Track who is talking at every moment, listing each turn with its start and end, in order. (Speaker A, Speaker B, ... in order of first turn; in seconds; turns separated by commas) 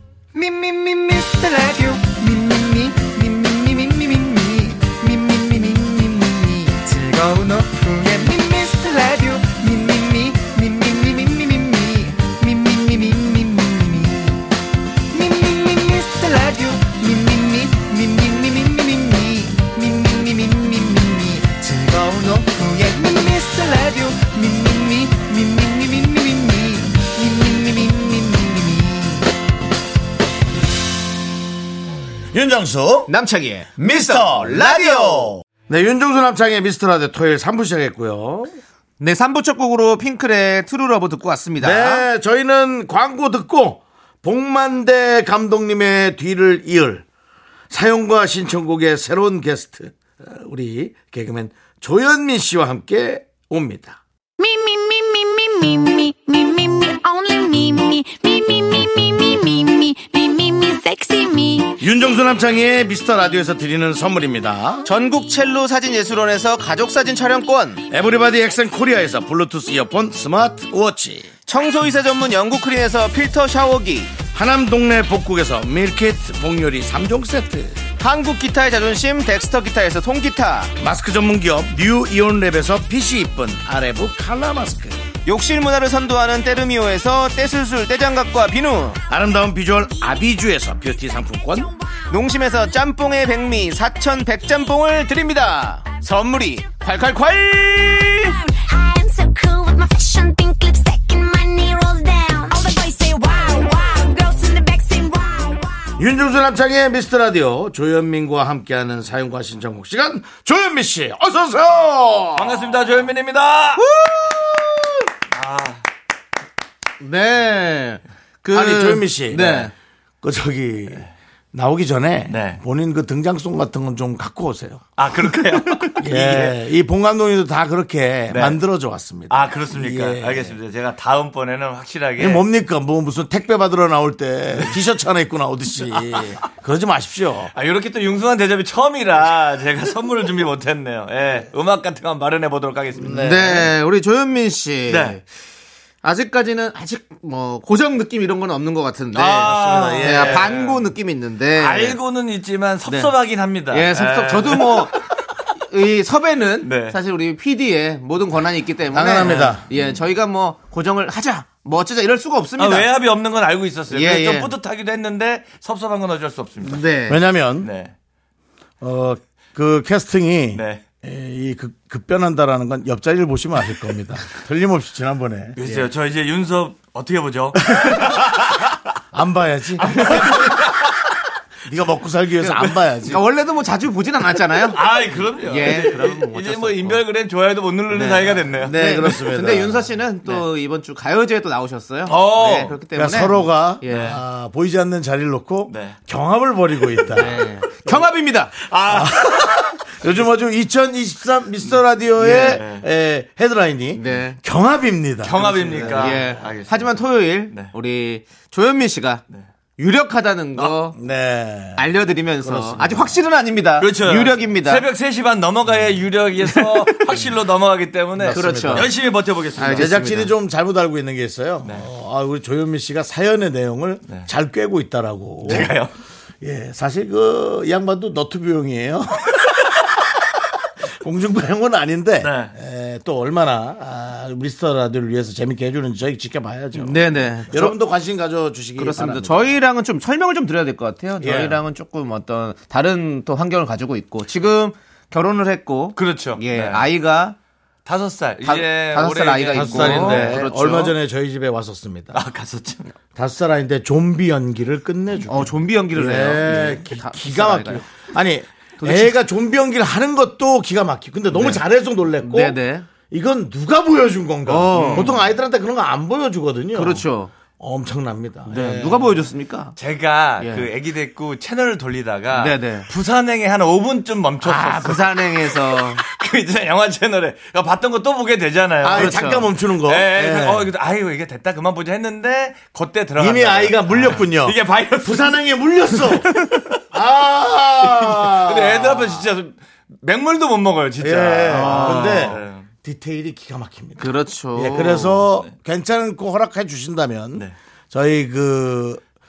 Speaker A: 0.3-14.4, Speaker A: 15.1-29.2, Speaker B: 32.3-33.1, Speaker C: 33.1-35.3, Speaker B: 33.8-38.5, Speaker C: 39.0-42.0, Speaker B: 41.6-47.0, Speaker B: 47.7-54.0, Speaker D: 54.4-61.7, Speaker B: 61.8-64.9, Speaker C: 64.8-67.8, Speaker B: 67.9-71.3, Speaker C: 71.5-74.1, Speaker B: 74.3-77.8, Speaker C: 78.0-80.7, Speaker B: 80.8-85.0, Speaker C: 85.2-89.0, Speaker B: 89.1-91.7, Speaker C: 92.1-98.3, Speaker D: 98.6-105.8, Speaker B: 106.0-112.8, Speaker E: 112.3-113.8, Speaker C: 113.8-114.9, Speaker E: 115.3-115.8, Speaker C: 117.0-119.7, Speaker B: 118.5-119.7, Speaker B: 120.2-125.0, Speaker E: 122.3-122.6, Speaker E: 125.0-126.6, Speaker B: 125.8-130.6, Speaker E: 128.3-128.6, Speaker E: 129.3-132.4, Speaker B: 132.2-137.5, Speaker E: 137.5-143.4, Speaker B: 142.9-143.7, Speaker C: 143.1-145.2, Speaker E: 144.9-145.2, Speaker C: 146.0-152.0, Speaker B: 149.1-150.5, Speaker E: 149.2-150.9, Speaker E: 151.6-155.3, Speaker C: 152.8-153.1, Speaker C: 153.7-155.0, Speaker C: 155.6-162.9, Speaker E: 156.6-157.0, Speaker B: 158.9-159.6, Speaker E: 162.6-166.8, Speaker C: 163.9-164.5, Speaker C: 166.6-167.2, Speaker B: 167.1-167.7, Speaker E: 167.6-167.9, Speaker B: 168.8-175.6, Speaker E: 170.5-170.8, Speaker E: 175.6-178.7, Speaker C: 175.6-175.9, Speaker B: 177.8-178.2, Speaker B: 179.1-180.6, Speaker E: 179.8-181.0, Speaker B: 181.6-183.2, Speaker C: 183.0-187.0, Speaker E: 184.7-189.1, Speaker C: 187.9-194.2, Speaker B: 188.5-189.9, Speaker E: 192.1-192.8, Speaker B: 192.9-197.4, Speaker E: 193.9-194.2, Speaker E: 195.7-196.0, Speaker C: 197.1-198.5, Speaker E: 197.2-197.4, Speaker E: 198.6-199.7, Speaker B: 198.9-206.3, Speaker C: 202.2-202.6, Speaker E: 202.4-202.8, Speaker C: 203.9-204.4, Speaker E: 205.2-207.7, Speaker C: 205.6-209.2, Speaker C: 209.8-211.0, Speaker B: 210.9-211.8, Speaker C: 211.8-214.8, Speaker B: 212.4-213.1, Speaker E: 213.8-220.0, Speaker C: 216.4-217.2, Speaker B: 218.2-218.9, Speaker C: 218.3-218.9, Speaker C: 219.6-220.3, Speaker B: 219.6-225.8, Speaker E: 225.4-225.9, Speaker B: 226.4-229.4, Speaker B: 230.8-239.6, Speaker E: 232.2-232.5, Speaker C: 236.8-237.8, Speaker C: 238.8-247.3, Speaker B: 241.2-241.6, Speaker E: 245.9-246.9, Speaker E: 247.8-250.7, Speaker C: 248.4-250.9, Speaker B: 249.5-252.2, Speaker E: 252.1-252.9, Speaker B: 253.2-267.0, Speaker C: 255.3-257.8, Speaker C: 258.8-259.1, Speaker C: 261.3-261.6, Speaker C: 262.2-262.9, Speaker C: 264.5-265.1, Speaker E: 264.7-265.2, Speaker C: 266.7-267.3, Speaker B: 267.6-269.2, Speaker C: 268.5-269.7, Speaker E: 269.8-285.4, Speaker C: 270.4-270.7, Speaker C: 272.3-272.9, Speaker C: 274.4-276.0, Speaker B: 278.8-280.7, Speaker C: 278.9-279.5, Speaker B: 283.2-286.4, Speaker E: 285.9-286.8, Speaker B: 286.9-289.2, Speaker E: 287.8-292.7, Speaker B: 291.0-299.0, Speaker C: 291.5-292.3, Speaker C: 294.0-295.2, Speaker E: 295.2-295.5